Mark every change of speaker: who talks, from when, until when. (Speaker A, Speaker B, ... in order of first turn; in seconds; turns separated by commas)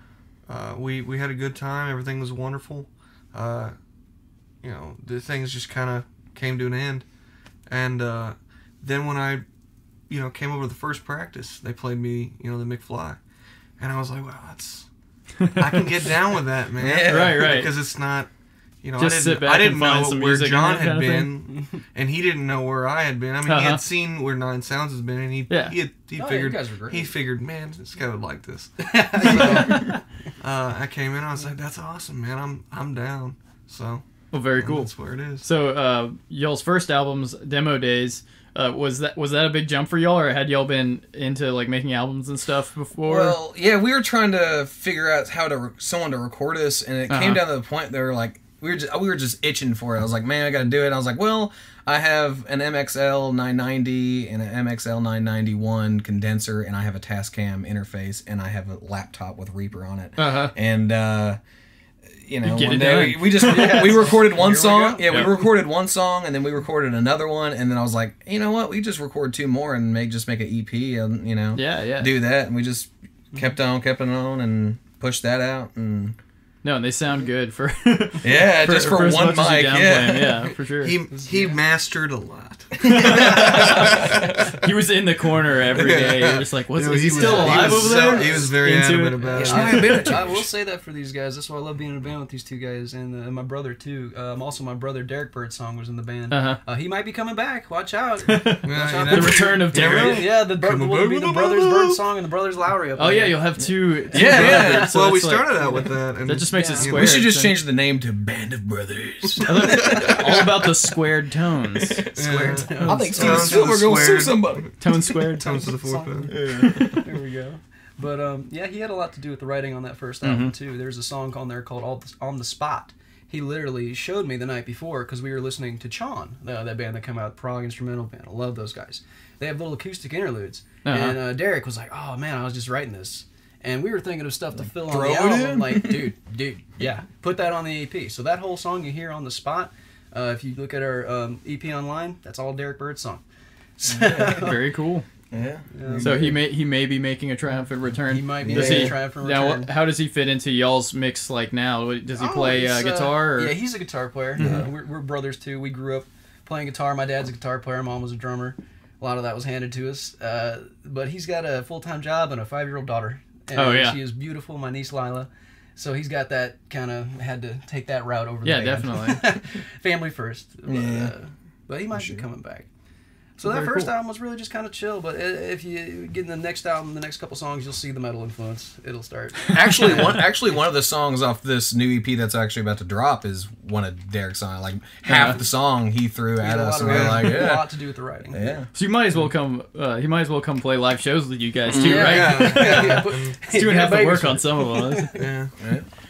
Speaker A: 0.4-3.8, Speaker A: 4.6-7.1, Speaker A: 7.6-9.4, Speaker A: 10.1-13.2, Speaker A: 13.8-14.9, Speaker B: 15.4-15.7, Speaker A: 15.4-18.3, Speaker C: 16.8-17.5, Speaker B: 17.1-17.8, Speaker A: 18.8-35.5, Speaker B: 19.0-21.3, Speaker B: 23.5-23.8, Speaker B: 25.5-25.8, Speaker D: 26.2-27.1, Speaker D: 28.8-30.0, Speaker B: 29.3-30.0, Speaker B: 34.3-43.4, Speaker C: 43.1-61.4, Speaker B: 47.1-47.5, Speaker B: 60.2-60.5, Speaker C: 62.2-76.2, Speaker B: 62.4-64.2, Speaker D: 63.4-65.2, Speaker B: 65.1-65.3, Speaker B: 71.5-72.1, Speaker B: 76.6-81.0, Speaker C: 78.2-80.5, Speaker A: 80.8-84.6, Speaker D: 81.1-81.6, Speaker B: 82.8-90.1, Speaker C: 82.9-84.1, Speaker A: 85.6-90.4, Speaker D: 87.0-88.6, Speaker D: 89.3-103.5, Speaker B: 96.3-96.6, Speaker B: 98.3-100.3, Speaker A: 98.6-102.0, Speaker B: 103.0-107.6, Speaker D: 104.0-105.0, Speaker C: 104.1-105.0, Speaker A: 104.2-107.2, Speaker D: 106.5-107.0, Speaker C: 106.9-110.8, Speaker B: 109.4-112.0, Speaker A: 109.7-110.5, Speaker A: 112.1-116.4, Speaker D: 112.1-113.9, Speaker C: 112.4-115.0, Speaker B: 112.7-113.6, Speaker B: 114.8-115.7, Speaker D: 115.4-143.2, Speaker C: 116.3-116.8, Speaker B: 116.4-117.0, Speaker B: 120.2-120.5, Speaker B: 130.8-131.2, Speaker C: 134.6-136.1, Speaker D: 143.8-144.6, Speaker C: 143.9-144.5, Speaker B: 144.0-145.1, Speaker C: 145.3-146.4, Speaker D: 145.7-146.2, Speaker B: 146.0-153.6, Speaker D: 148.1-149.7, Speaker C: 148.4-149.0, Speaker D: 152.1-172.7, Speaker C: 154.4-154.7, Speaker B: 154.4-154.6, Speaker B: 163.6-164.0, Speaker B: 168.4-169.3, Speaker C: 170.7-171.1, Speaker C: 171.9-172.2, Speaker D: 173.4-180.2, Speaker B: 173.4-173.9, Speaker C: 179.5-187.7, Speaker B: 179.8-180.2, Speaker B: 185.1-185.4, Speaker D: 186.4-188.5, Speaker A: 186.8-187.6, Speaker C: 188.3-188.7, Speaker B: 188.7-195.3, Speaker C: 191.7-192.2, Speaker D: 191.8-195.2, Speaker A: 192.0-193.4, Speaker A: 195.1-195.5, Speaker C: 195.6-195.9